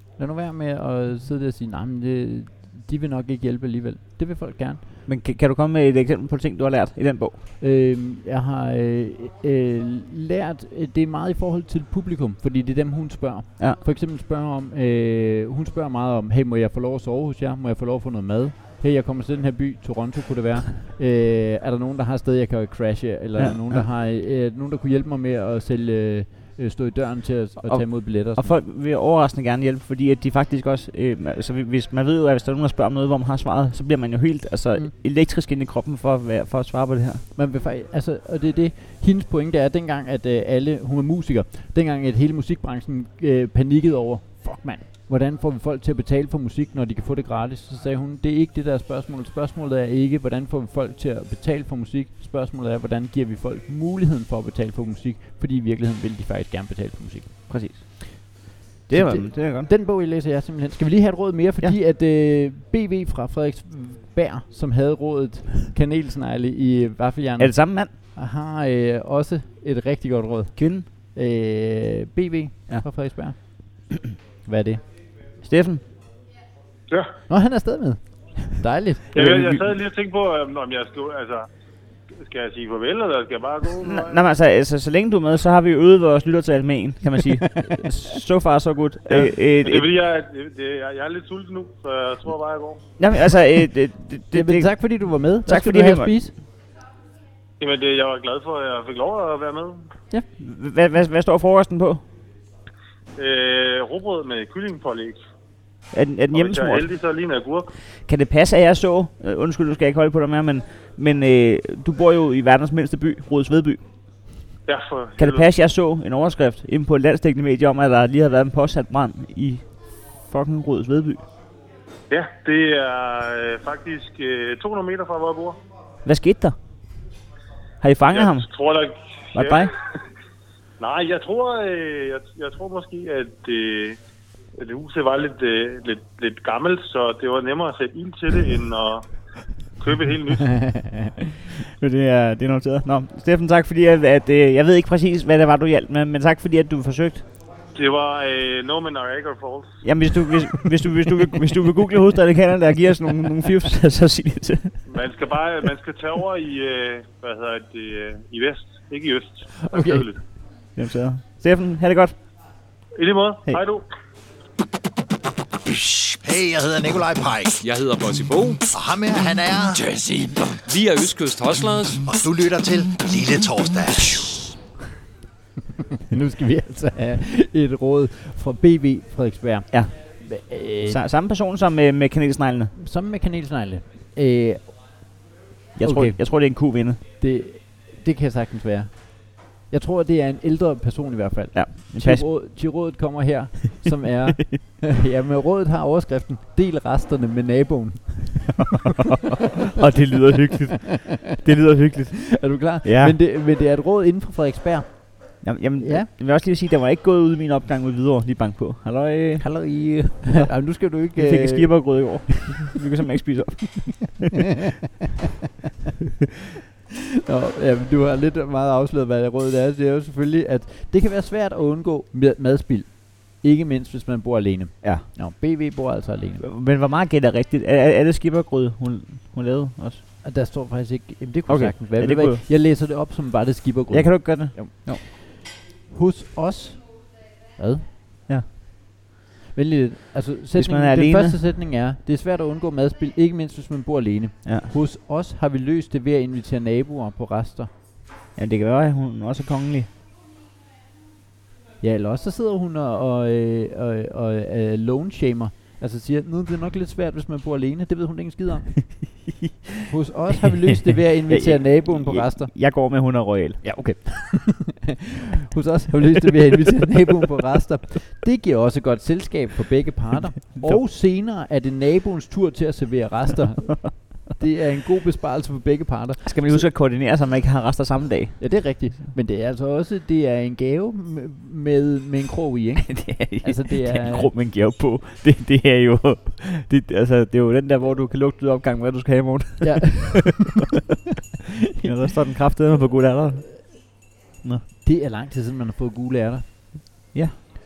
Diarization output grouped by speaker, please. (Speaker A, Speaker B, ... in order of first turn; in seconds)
Speaker A: 0.2-4.8, 7.6-28.6, 37.4-57.8, 58.9-73.4, 74.5-74.8, 77.3-79.3, 94.3-96.3, 140.5-141.1, 159.6-160.1, 176.1-181.0, 182.8-184.8, 185.8-186.5, 187.2-198.9, 202.3-206.1, 209.4-212.3, 217.3-226.5, 230.2-237.9, 239.5-247.7, 251.8-259.1, 259.9-262.6, 263.6-276.7, 278.4-284.3, 289.6-290.5, 294.8-297.0
Speaker B: 5.1-7.4, 23.4-23.9, 27.6-37.2, 57.5-58.3, 58.9-59.7, 67.4-67.9, 70.6-70.9, 75.4-75.8, 79.2-79.6, 83.8-89.9, 93.0-96.2, 100.4-102.0, 105.9-106.9, 108.0-113.9, 115.2-121.2, 126.0-126.6, 127.8-128.5, 129.3-129.7, 141.8-147.2, 149.8-154.8, 160.8-162.2, 180.9-182.7, 185.8-187.0, 191.5-192.3, 194.3-194.6, 198.6-203.2, 205.4-214.3, 226.4-230.0, 231.5-232.4, 233.9-235.0, 240.6-241.4, 244.4-244.7, 248.4-249.9, 260.9-263.6, 270.6-270.8, 276.2-278.5, 282.8-290.3, 291.8-294.7, 297.1-297.4
Speaker C: 76.9-77.2, 79.2-81.5, 82.2-84.2, 89.2-92.8, 97.6-99.8, 103.2-105.2, 106.3-107.7, 114.7-115.5, 122.1-125.6, 128.1-129.7, 130.8-134.0, 134.6-139.1, 139.8-140.8, 147.8-149.8, 154.9-160.2, 163.0-163.9
Speaker D: 165.7-167.6, 168.7-169.9, 172.0-174.5
Speaker E: 167.6-168.7, 169.8-172.0